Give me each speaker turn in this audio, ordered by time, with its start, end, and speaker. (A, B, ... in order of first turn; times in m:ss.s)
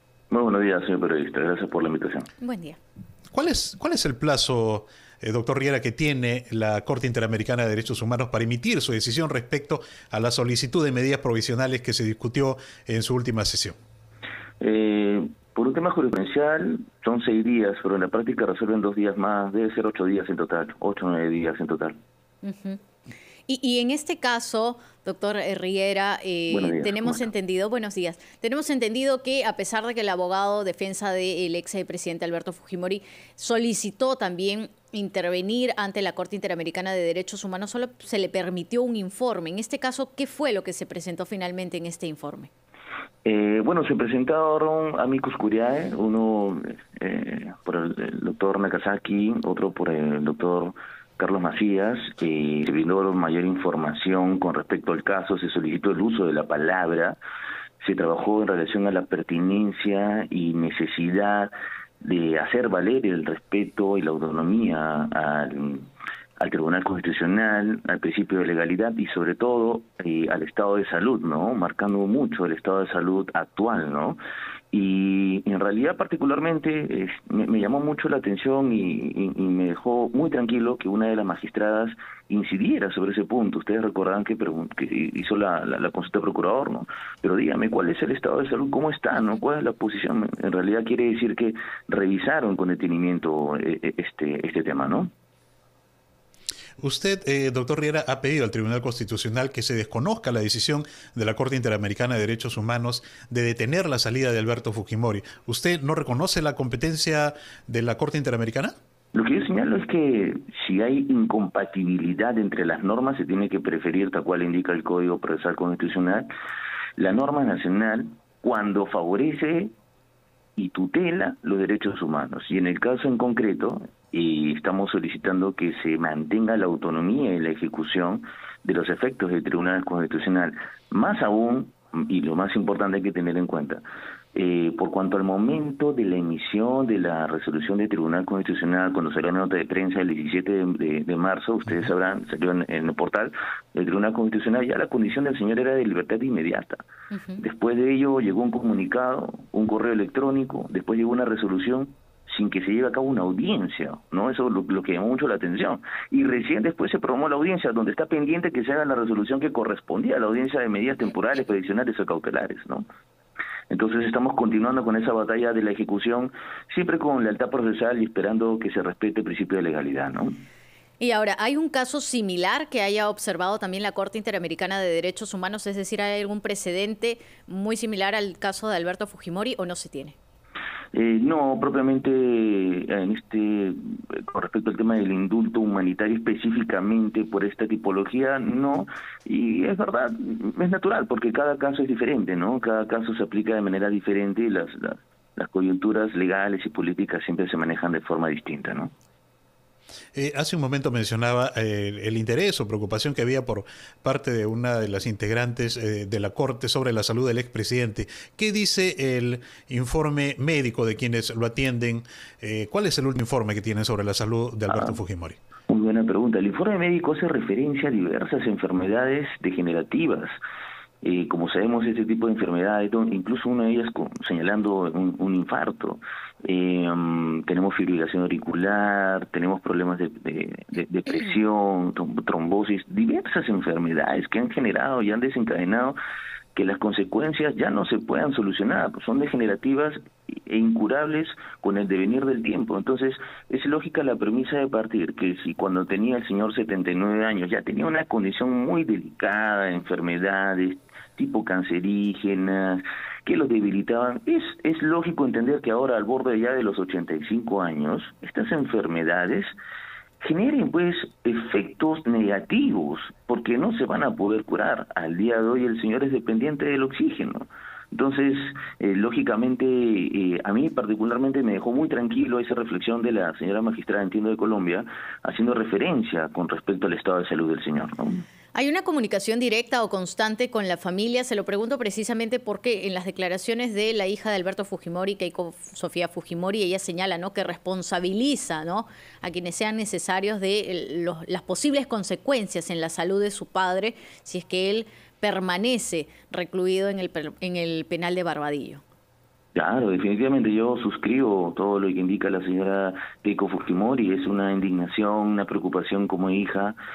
0:00.3-0:02.3 A
0:02.4-0:02.8 B
0:03.3-0:13.8 C
0:14.6-0:22.0 A
0:22.4-0:22.8 B
0:23.5-0:42.5 B
0:26.5-0:27.3 A
0:43.2-0:57.2 A
0:57.8-1:14.2 A
1:14.7-1:35.1 A
1:36.8-1:48.8 C
1:49.1-1:56.3 A
1:57.0-1:59.7 A
2:00.6-2:26.8 A
2:27.4-2:42.9 A
2:43.7-2:50.4 A
2:51.0-3:00.2 B
3:00.9-3:18.9 A
3:20.2-3:35.4 C
3:34.7-3:35.0 A
3:35.7-3:40.4 A
3:41.0-3:56.0 A
3:56.6-4:19.6 A
4:20.2-4:38.2 A
4:38.6-4:58.8 B
4:59.6-5:06.8 A